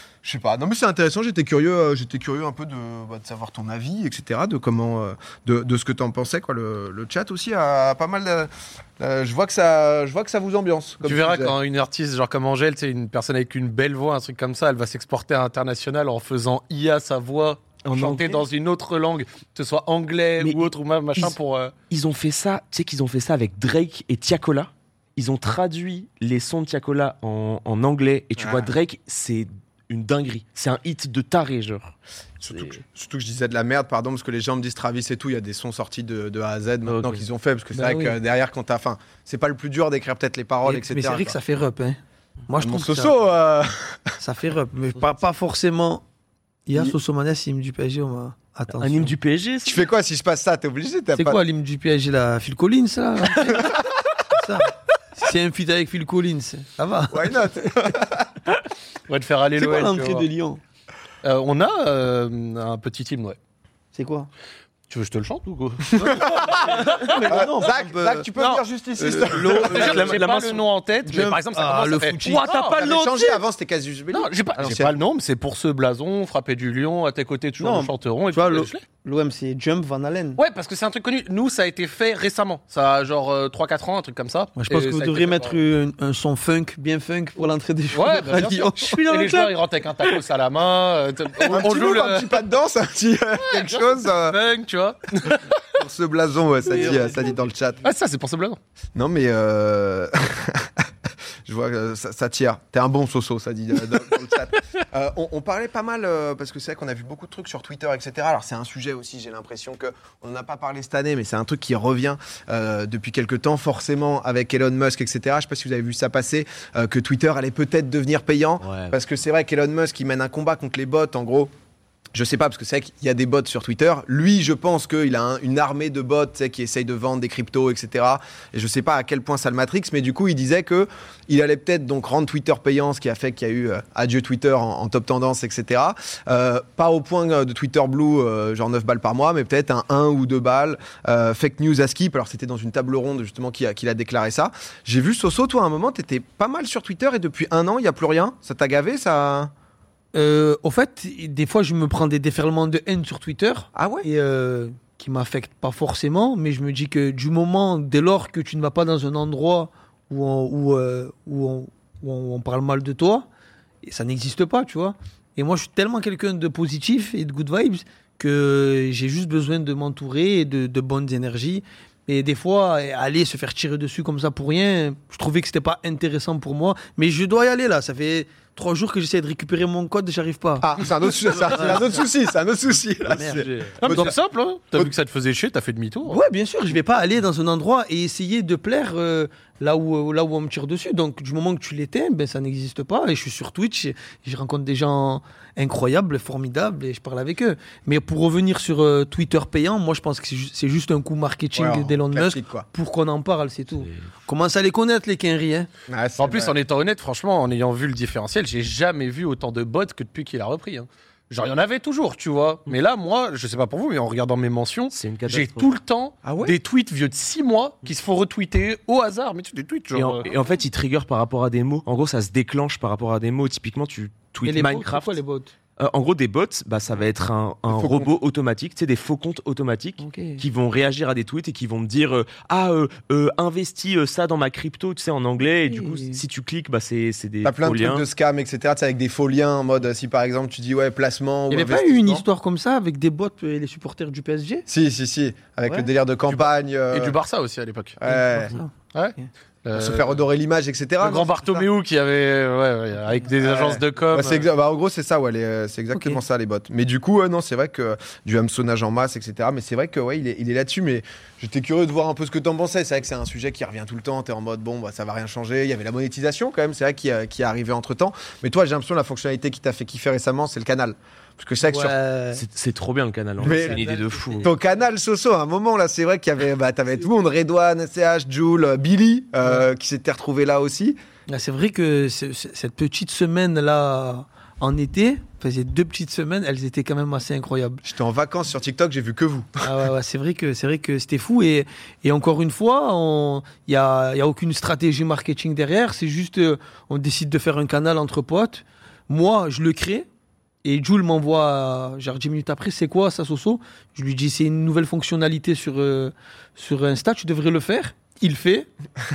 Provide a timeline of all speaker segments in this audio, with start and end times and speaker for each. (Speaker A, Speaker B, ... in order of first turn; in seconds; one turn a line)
Speaker A: 0.2-11.6
Speaker B: 11.0-21.7
Speaker C: 17.9-18.4
Speaker C: 21.9-31.9
Speaker A: 28.4-28.7
Speaker A: 32.4-41.4
Speaker C: 32.5-32.8
Speaker C: 36.9-37.2
Speaker D: 37.8-38.2
Speaker D: 40.6-43.1
Speaker A: 42.6-44.2
Speaker D: 44.2-46.0
Speaker D: 46.7-49.1
Speaker C: 48.7-49.8
Speaker A: 49.6-51.4
Speaker D: 51.1-57.8
Speaker A: 57.1-58.3
Speaker B: 59.1-60.3
Speaker D: 59.6-60.6
Speaker B: 61.2-63.4
Speaker D: 63.9-64.3
Speaker B: 64.9-67.2
Speaker D: 65.9-68.3
Speaker A: 65.9-70.0
Speaker D: 69.0-70.2
Speaker C: 69.5-70.7
Speaker B: 69.5-72.8
Speaker D: 71.1-72.5
Speaker C: 72.3-73.4
Speaker A: 72.7-75.0
Speaker B: 74.1-78.8
Speaker D: 77.6-80.4
Speaker B: 80.4-85.6
Speaker D: 84.6-89.5
Speaker B: 87.9-92.4
Speaker A: 91.5-94.4
Speaker B: 93.4-95.6
Speaker A: 95.7-97.9
Speaker D: 96.7-97.3
Speaker B: 96.7-97.2
Speaker B: 97.8-98.6
Speaker A: 99.0-100.9
Speaker A: 101.5-121.5
Speaker C: 118.6-119.0
Speaker A: 122.1-149.5
Speaker D: 150.1-163.3
Speaker A: 153.8-154.1
Speaker D: 163.8-180.7
Speaker A: 180.6-184.2
Speaker D: 181.3-182.0
Speaker D: 183.1-184.1
Speaker B: 183.2-186.2
Speaker D: 186.1-205.7
Speaker A: 201.6-202.7
Speaker A: 205.9-206.6
Speaker B: 206.2-220.3
Speaker C: 214.9-215.7
Speaker A: 216.2-216.6
Speaker C: 219.9-225.2
Speaker D: 224.4-225.5
Speaker C: 225.8-238.0
Speaker A: 227.7-228.1
Speaker D: 230.0-230.4
Speaker D: 235.7-236.2
Speaker A: 237.4-242.2
Speaker D: 241.5-244.7
Speaker A: 244.7-247.2
Speaker B: 246.3-248.0
Speaker A: 248.0-248.6
Speaker D: 248.1-249.3
Speaker B: 248.9-250.2
Speaker A: 249.8-251.7
Speaker B: 251.0-254.5
Speaker A: 253.4-272.0
Speaker D: 271.6-272.4
Speaker C: 272.3-274.5
Speaker A: 273.4-273.9
Speaker D: 273.4-274.5
Speaker A: 274.4-281.0
Speaker D: 281.3-287.8
Speaker A: 287.8-289.6
Speaker D: 289.6-300.1
Speaker D: 300.6-308.7